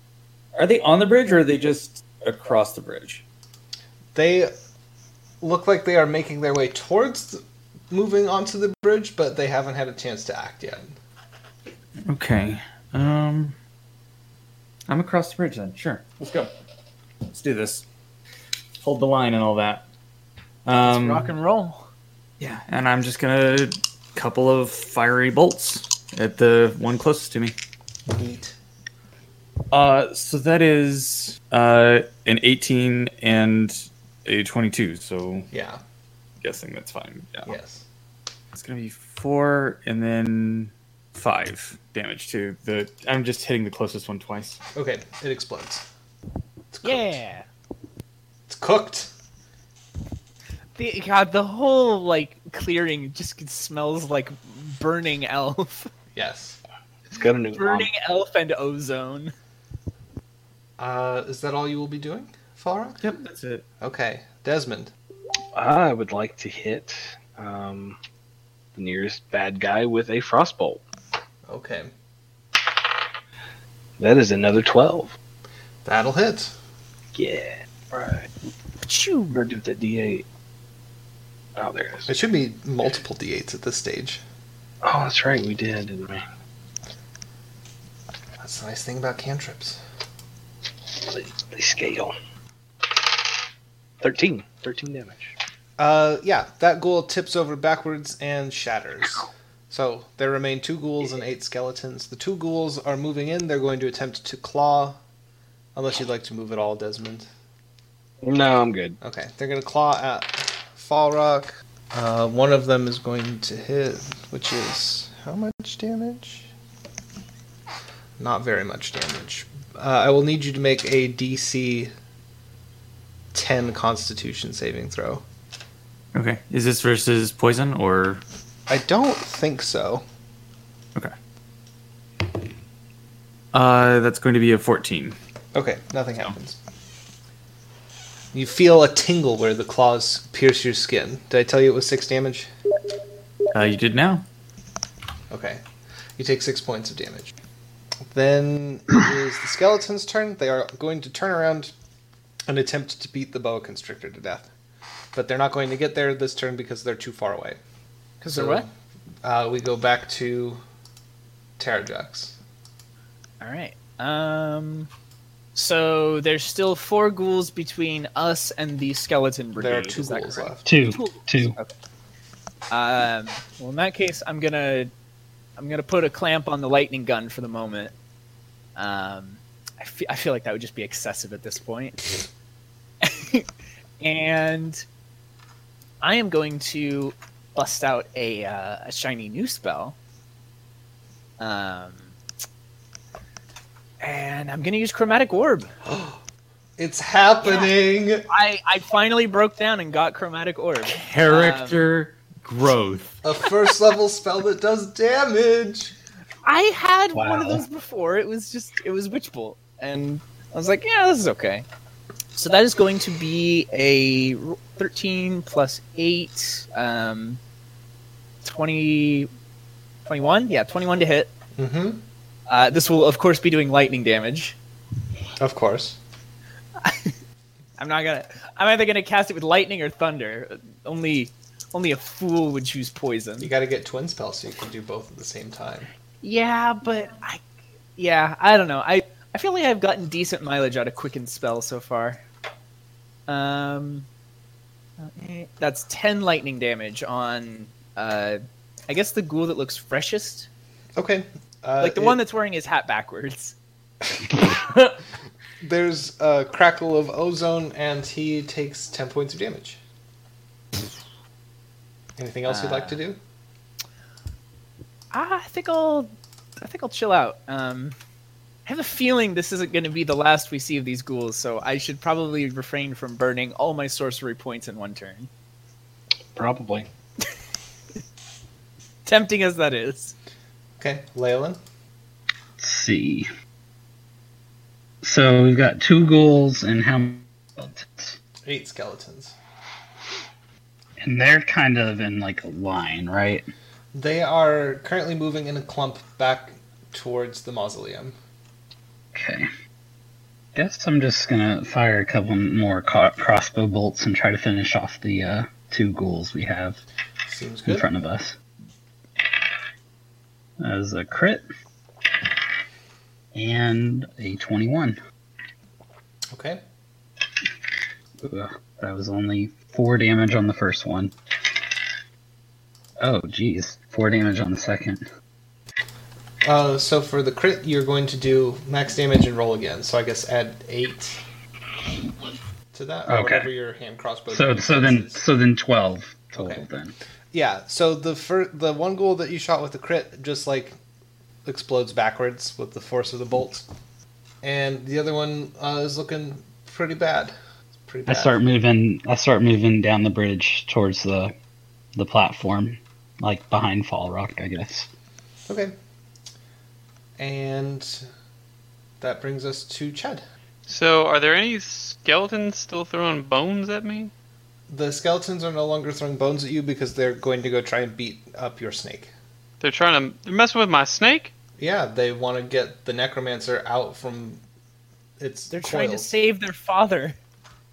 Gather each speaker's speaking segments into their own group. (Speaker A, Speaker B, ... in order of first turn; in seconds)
Speaker A: 0.5-3.2, 12.1-13.6, 14.9-16.5, 17.2-17.8, 18.8-19.9, 20.6-21.3, 22.4-27.6, 29.7-35.5, 36.4-37.5, 38.5-44.6, 63.0-63.6, 126.1-128.2, 133.5-135.2, 143.5-144.2, 200.9-203.2
Speaker B: 4.1-4.5, 5.4-10.9, 28.1-28.6, 35.5-35.8, 37.4-37.8, 44.7-45.8, 46.7-47.2, 48.5-49.1, 56.1-56.6, 60.8-63.0, 63.8-64.9, 71.5-71.9, 75.8-76.5, 82.1-84.2, 88.4-89.8, 95.8-105.0, 105.7-107.3, 109.0-116.5, 118.2-121.9, 123.3-125.2, 128.7-130.0, 135.5-136.6, 138.3-142.5, 145.3-145.6, 146.2-147.3, 148.1-151.7, 152.5-154.5, 155.1-157.6, 158.3-158.7, 159.2-160.6, 161.6-162.4, 169.6-170.7, 195.9-196.2, 196.8-198.3, 203.2-205.9, 221.6-222.0, 225.4-226.0, 233.4-235.9, 250.9-252.2, 255.6-259.8, 262.2-263.2, 280.8-281.6, 288.4-289.4, 293.9-298.1, 307.2-307.9, 316.3-316.6, 326.4-331.2, 332.7-335.2, 336.4-336.6, 337.3-340.8, 341.4-343.7, 344.4-348.4, 355.5-355.7, 357.2-358.0, 359.0-360.2, 364.7-369.1, 371.6-374.4, 375.2-376.1
Speaker C: 20.8-21.8, 46.8-47.5, 50.8-55.9, 57.5-59.3, 78.9-79.4, 158.2-158.6, 163.4-164.9, 165.5-171.7, 172.7-174.9, 175.6-177.9, 178.8-182.2, 183.0-183.5, 184.0-184.8, 186.0-189.9, 191.4-192.1, 194.0-195.7, 197.4-197.7, 198.3-201.8, 206.4-211.7, 212.3-217.4, 218.4-219.3, 220.1-221.3, 222.5-224.6, 226.8-227.1, 227.8-233.5, 236.2-237.4, 238.0-242.2, 243.3-244.1, 245.0-250.5, 251.8-253.5, 262.4-263.0, 265.1-268.0, 268.6-275.3, 279.0-280.1, 375.5-377.2
Speaker D: 57.1-57.9, 65.5-68.0, 68.8-70.8, 74.0-75.2, 77.1-78.3, 79.3-80.2, 81.5-82.1, 84.8-86.2, 90.9-92.1, 94.0-95.3, 108.2-109.0, 276.3-276.9
Speaker E: 170.7-171.6, 207.1-207.6, 282.6-283.3, 285.0-288.2, 291.0-293.5, 299.1-299.5, 300.5-306.8, 307.6-308.4, 310.6-311.4, 313.3-315.0, 318.2-321.1, 323.0-325.0, 333.1-333.5, 334.3-336.9, 348.1-351.3, 351.9-354.9
Speaker F: 360.7-364.1, 369.6-371.3